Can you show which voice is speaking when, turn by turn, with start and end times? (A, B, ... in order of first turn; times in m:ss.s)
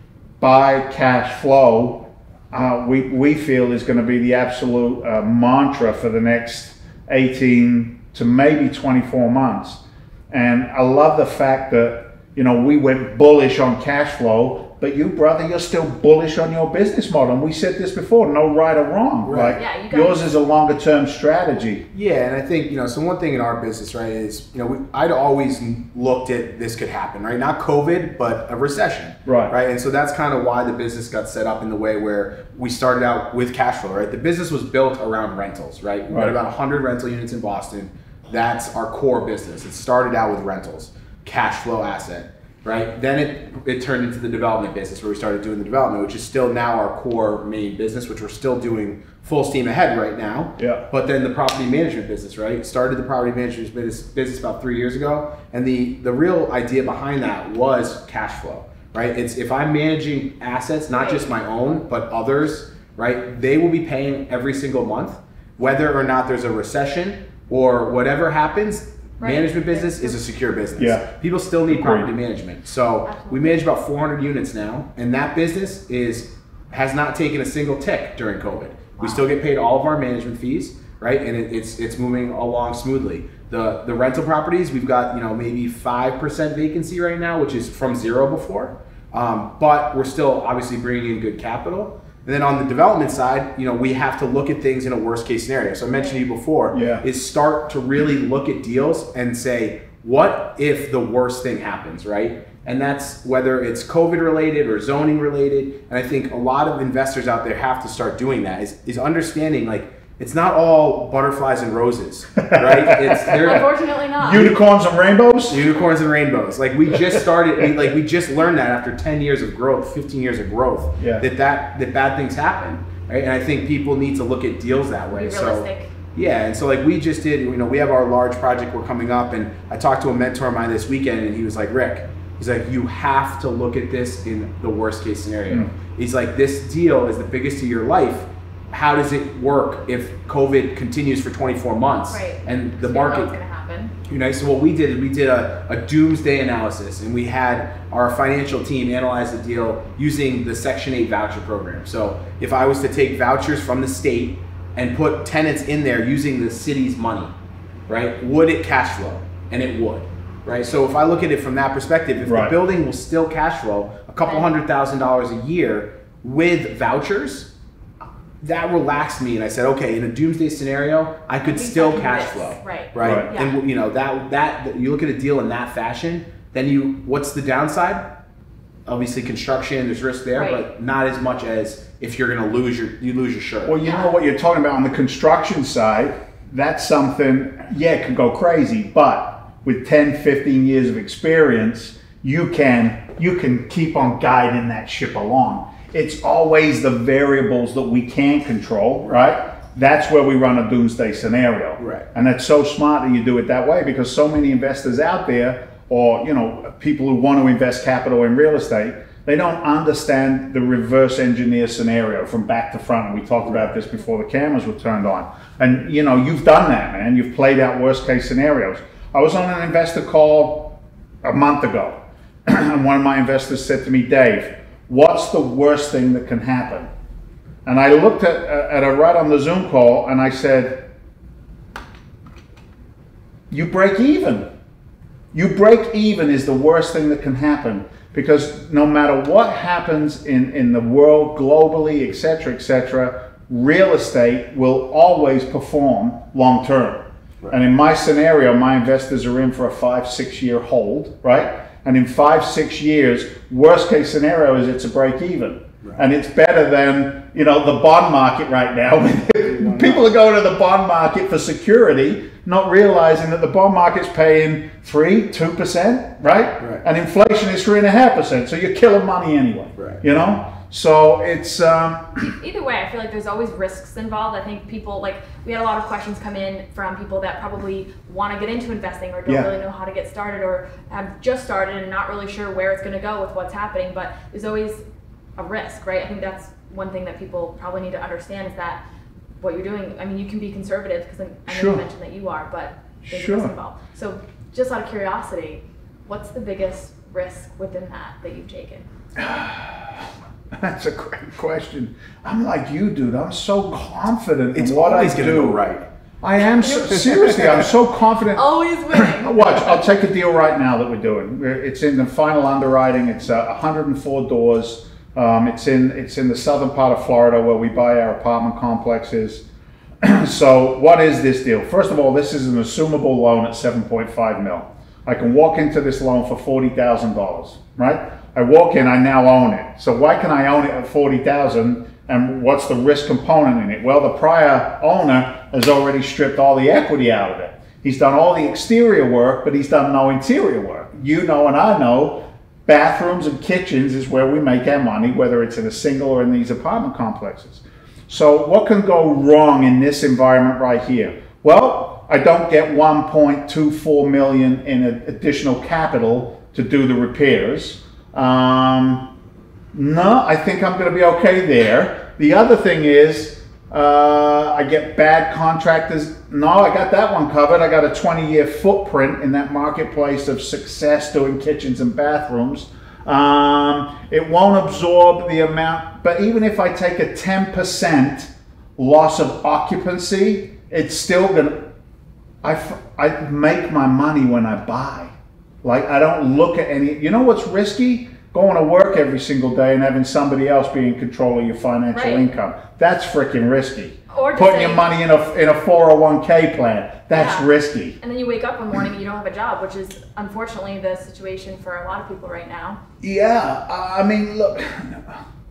0:00.4-0:21.8 A
0:19.2-0:19.6 B
0:19.5-0:20.2 C
0:21.9-1:53.7 B
0:29.2-0:29.5 A
0:36.1-0:36.4 A
0:50.6-0:50.8 A
1:00.9-1:01.3 C
1:09.2-1:10.2 C
1:10.8-1:11.1 A
1:11.7-1:12.1 A
1:13.1-1:13.6 C
1:19.0-1:19.2 C
1:36.7-1:37.0 A
1:52.4-1:53.6 A
1:53.4-1:54.6 C
1:54.2-1:55.7 A
1:54.3-1:54.6 B
1:55.5-2:23.3 B
2:01.0-2:01.2 A
2:05.1-2:05.9 C
2:22.1-2:23.9 C
2:24.1-2:37.3 B
2:37.9-2:47.5 B
2:42.2-2:42.6 A
2:44.2-2:44.5 C
2:48.4-2:58.1 B
2:51.4-2:53.6 C
2:53.0-2:53.3 A
2:58.8-3:03.8 B
3:00.4-3:00.6 C
3:03.6-3:46.9 A
3:03.8-3:04.1 C
3:21.8-3:22.1 B
3:47.6-3:50.9 A
3:53.5-3:54.5 A
3:55.3-4:32.3 A
4:19.4-4:20.0 B
4:29.8-4:30.0 B
4:32.2-4:44.8 C
4:45.4-4:48.8 C
4:49.4-4:58.8 C
4:51.5-4:51.8 A
4:53.0-4:53.5 A
4:59.2-5:05.6 A
5:04.5-5:05.8 B
5:06.2-5:19.4 A
5:06.9-5:07.7 B
5:08.3-5:09.8 C
5:20.0-5:59.1 A
5:59.7-6:21.7 A
6:22.4-6:25.1 A
6:25.6-6:38.0 A
6:31.9-6:32.3 C
6:34.1-6:34.9 C
6:37.1-6:42.8 C
6:43.0-6:45.2 A